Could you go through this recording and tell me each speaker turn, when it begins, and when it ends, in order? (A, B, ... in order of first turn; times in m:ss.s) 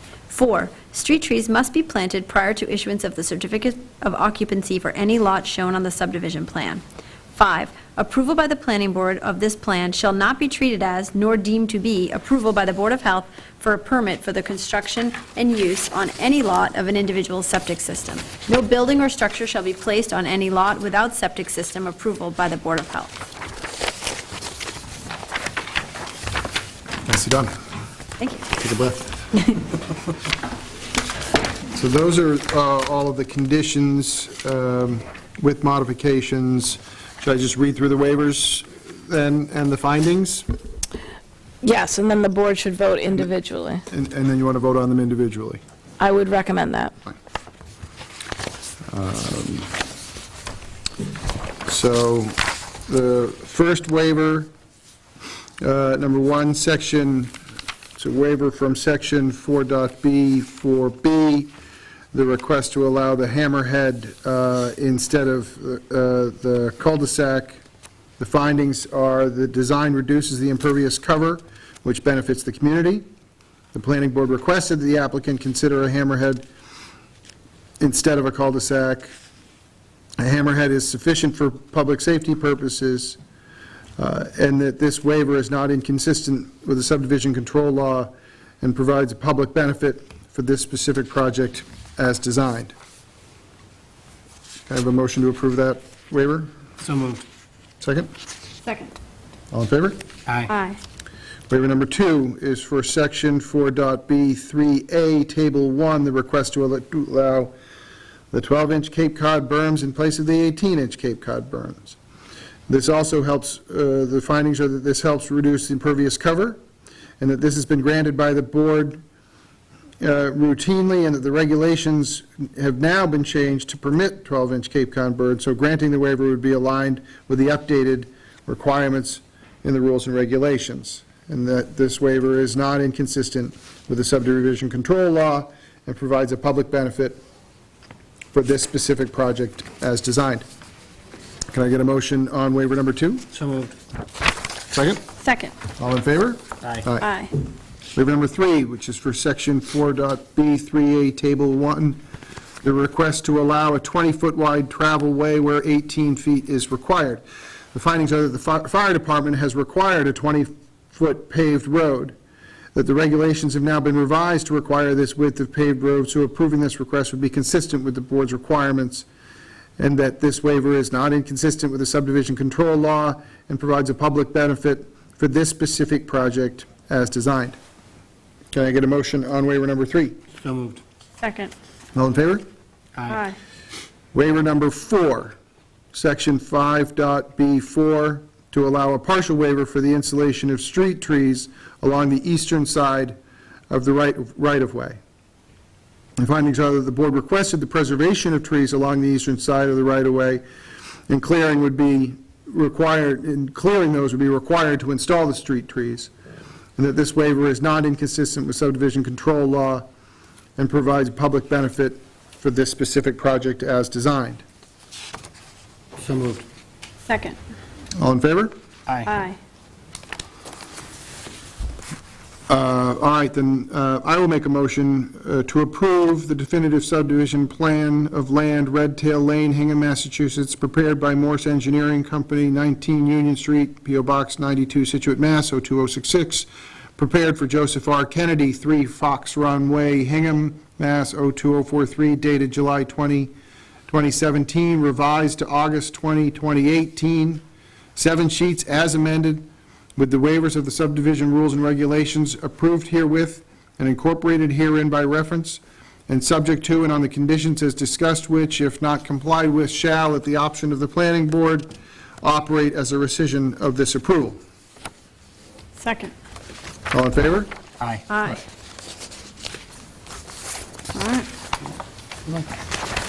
0:00.3-0:06.8 A
0:07.3-0:23.1 A
0:27.0-0:27.5 B
0:28.2-0:28.5 A
0:28.5-0:29.1 B
0:31.7-0:40.5 B
0:41.6-0:43.8 C
0:43.9-0:45.6 B
0:46.0-0:46.9 C
0:48.9-0:49.7 B
0:51.6-0:54.5 B
0:55.6-0:57.3 B
0:58.0-1:01.5 B
1:02.1-1:07.6 B
1:08.2-1:13.1 B
1:13.7-1:16.4 B
1:17.8-1:19.1 B
1:20.2-1:23.2 B
1:24.0-1:28.1 B
1:28.6-1:32.7 B
1:34.7-1:36.5 B
1:36.8-1:37.2 D
1:37.8-1:38.1 B
1:38.6-1:38.9 A
1:39.5-1:40.0 B
1:40.2-1:40.5 D
1:40.5-1:40.8 A
1:41.5-1:47.5 B
1:48.3-1:52.0 B
1:52.7-1:56.6 B
1:57.2-1:59.0 B
2:00.0-2:17.2 B
2:18.3-2:20.4 B
2:21.5-2:23.3 B
2:23.3-2:23.7 D
2:24.7-2:25.0 B
2:25.2-2:25.5 A
2:25.8-2:27.1 B
2:27.0-2:27.3 A
2:27.9-2:32.0 B
2:32.6-2:42.2 B
2:42.7-2:49.1 B
2:49.8-2:57.6 B
2:58.5-3:00.2 B
3:00.4-3:00.8 D
3:01.2-3:01.5 A
3:01.9-3:02.4 B
3:03.0-3:03.2 D
3:03.1-3:03.4 A
3:04.1-3:05.3 B
3:05.9-3:13.2 B
3:13.7-3:15.0 B
3:16.2-3:20.4 B
3:21.1-3:26.1 B
3:26.8-3:29.8 B
3:30.6-3:34.4 B
3:36.0-3:36.4 D
3:37.1-3:37.4 A
3:38.0-3:38.5 B
3:38.9-3:39.1 D
3:39.0-3:39.4 A
3:42.5-4:03.3 B
4:03.9-4:07.4 B
4:07.9-4:21.7 B
4:22.2-4:24.4 B
4:25.8-4:26.1 A
4:26.9-4:27.5 B
4:27.8-4:28.0 D
4:28.1-4:28.4 A
4:30.9-4:31.3 A